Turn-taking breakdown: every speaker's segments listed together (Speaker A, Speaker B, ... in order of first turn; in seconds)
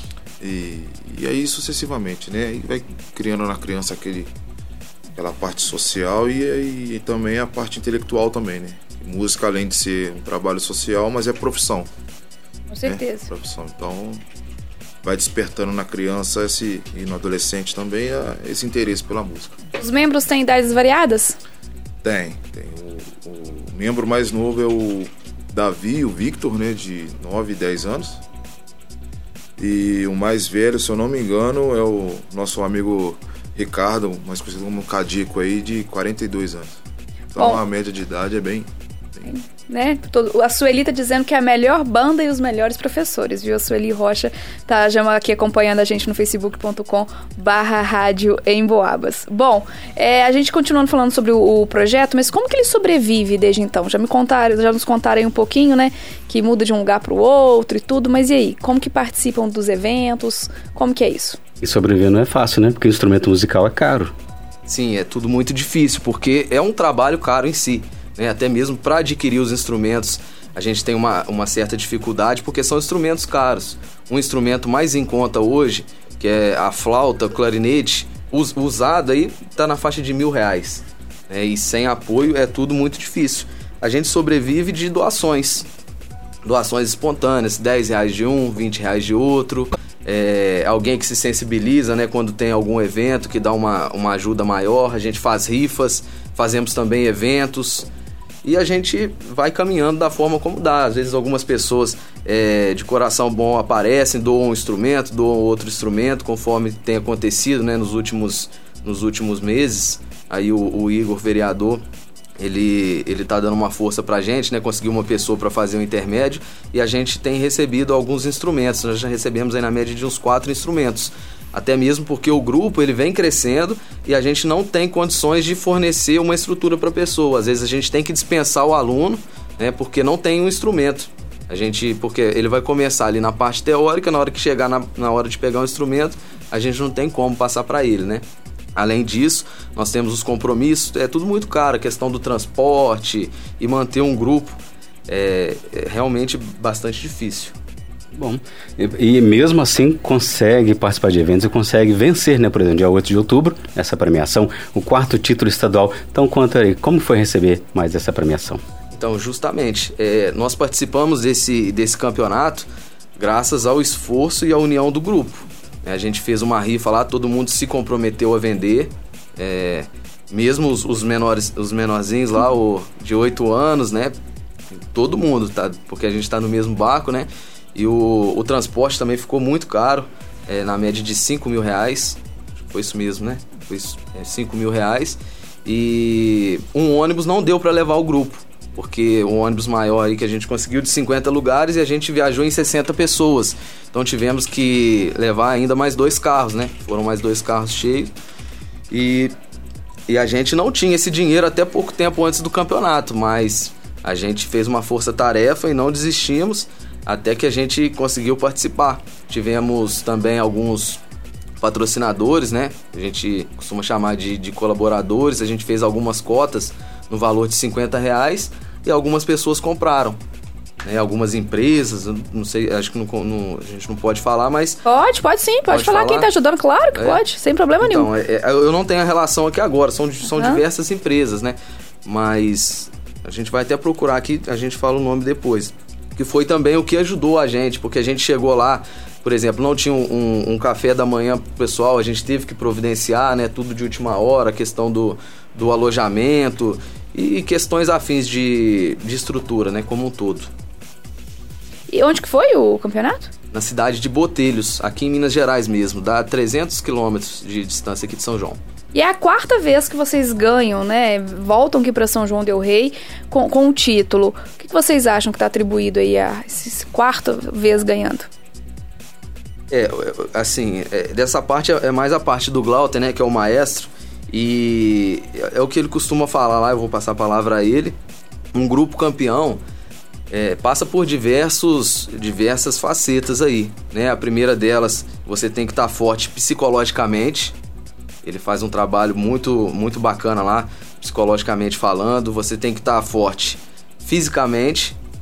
Speaker A: 0.4-4.3, 5.1-11.9, 12.8-14.2, 15.0-19.6, 22.0-28.2, 29.6-36.8, 37.3-39.3
Speaker B: 12.7-13.3, 19.8-21.4, 39.3-61.4, 224.8-228.1, 230.3-230.6, 251.9-253.3, 258.9-268.3
Speaker C: 61.6-64.1, 148.1-158.6
Speaker D: 64.7-85.7, 86.4-97.9, 98.4-111.8, 112.4-138.2, 138.8-144.6, 145.1-147.5, 158.9-162.7, 163.2-174.1, 174.7-198.1, 198.9-199.3, 200.1-211.0, 211.6-220.2, 220.8-224.8, 225.7-226.3, 226.9-227.2, 227.8-250.5, 253.5-258.6, 269.7-277.9, 278.5-279.6, 280.3-287.5, 288.2-294.9